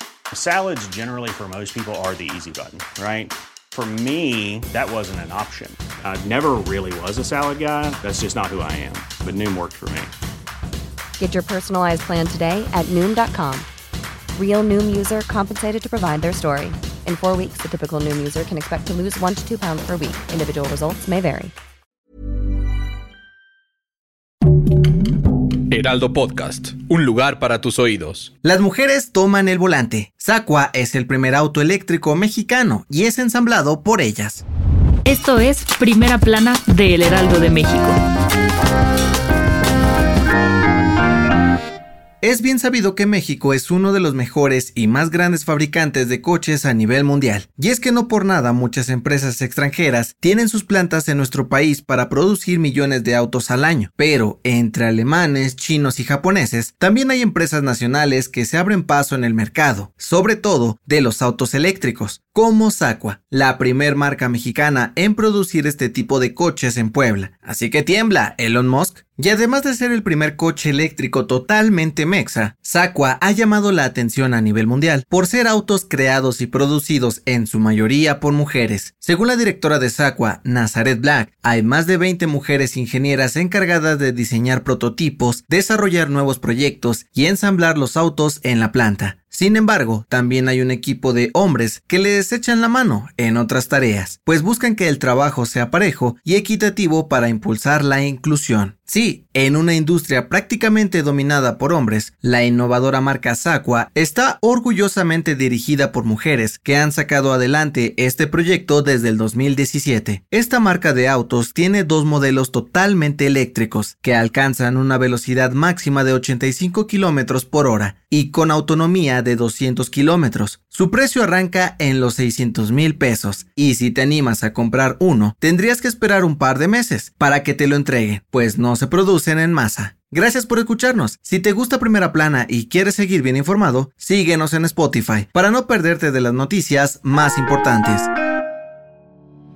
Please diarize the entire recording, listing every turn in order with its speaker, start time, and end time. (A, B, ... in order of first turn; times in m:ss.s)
0:00.3-0:10.1 A
0:11.2-0:13.7 B
0:14.4-0:21.5 B
0:25.7-0:28.3 C
0:28.4-0:34.4 D
0:35.0-0:38.0 E
0:42.2-2:18.1 D